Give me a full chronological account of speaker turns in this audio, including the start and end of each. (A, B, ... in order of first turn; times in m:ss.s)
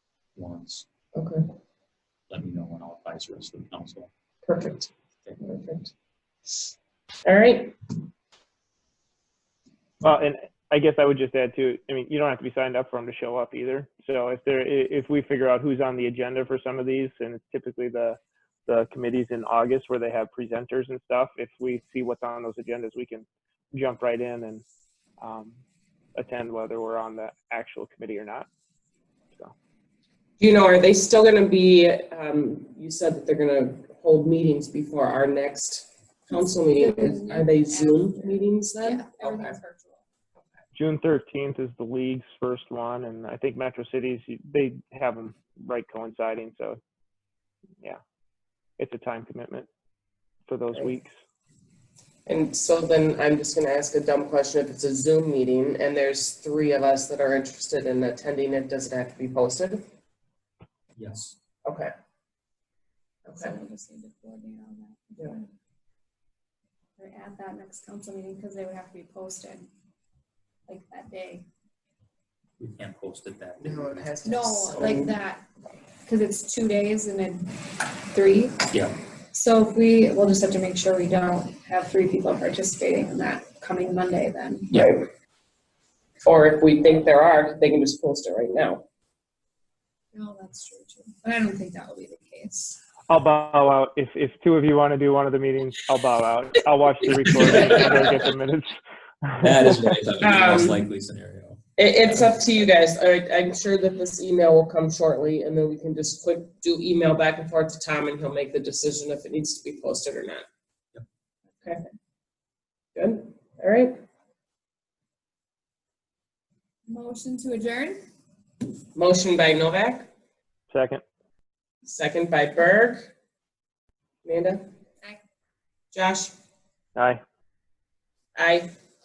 0:00.4-0:00.8 A
0:01.1-0:01.4 B
0:02.3-0:04.1 A
0:04.4-0:04.9 B
0:05.4-0:05.9 B
0:07.2-0:07.7 B
0:10.0-0:24.6 C
0:25.2-0:25.6 C
0:26.1-0:28.5 C
0:30.4-0:39.6 B
0:36.3-0:40.0 D
0:40.7-0:46.8 C
0:48.8-0:49.7 C
0:50.5-0:51.1 C
0:52.2-0:59.8 B
1:01.0-1:01.4 A
1:01.6-1:01.9 B
1:03.2-1:03.5 B
1:03.3-1:05.5 D
1:07.0-1:09.7 D
1:10.7-1:11.4 D
1:12.6-1:14.1 A
1:13.6-1:15.2 B
1:14.2-1:15.4 D
1:16.0-1:18.7 D
1:18.7-1:19.0 A
1:19.3-1:24.8 D
1:24.7-1:25.1 B
1:26.2-1:28.8 B
1:30.1-1:32.8 D
1:33.1-1:39.9 C
1:37.4-1:37.9 A
1:37.5-1:38.1 B
1:39.4-1:42.4 A
1:39.6-1:40.8 B
1:41.8-1:50.4 B
1:51.6-1:51.9 D
1:53.0-1:53.9 B
1:56.9-1:58.0 D
1:58.9-2:00.1 B
2:00.7-2:01.0 C
2:01.8-2:03.1 B
2:04.2-2:04.6 B
2:05.9-2:06.3 B
2:06.9-2:07.2 C
2:08.3-2:08.7 B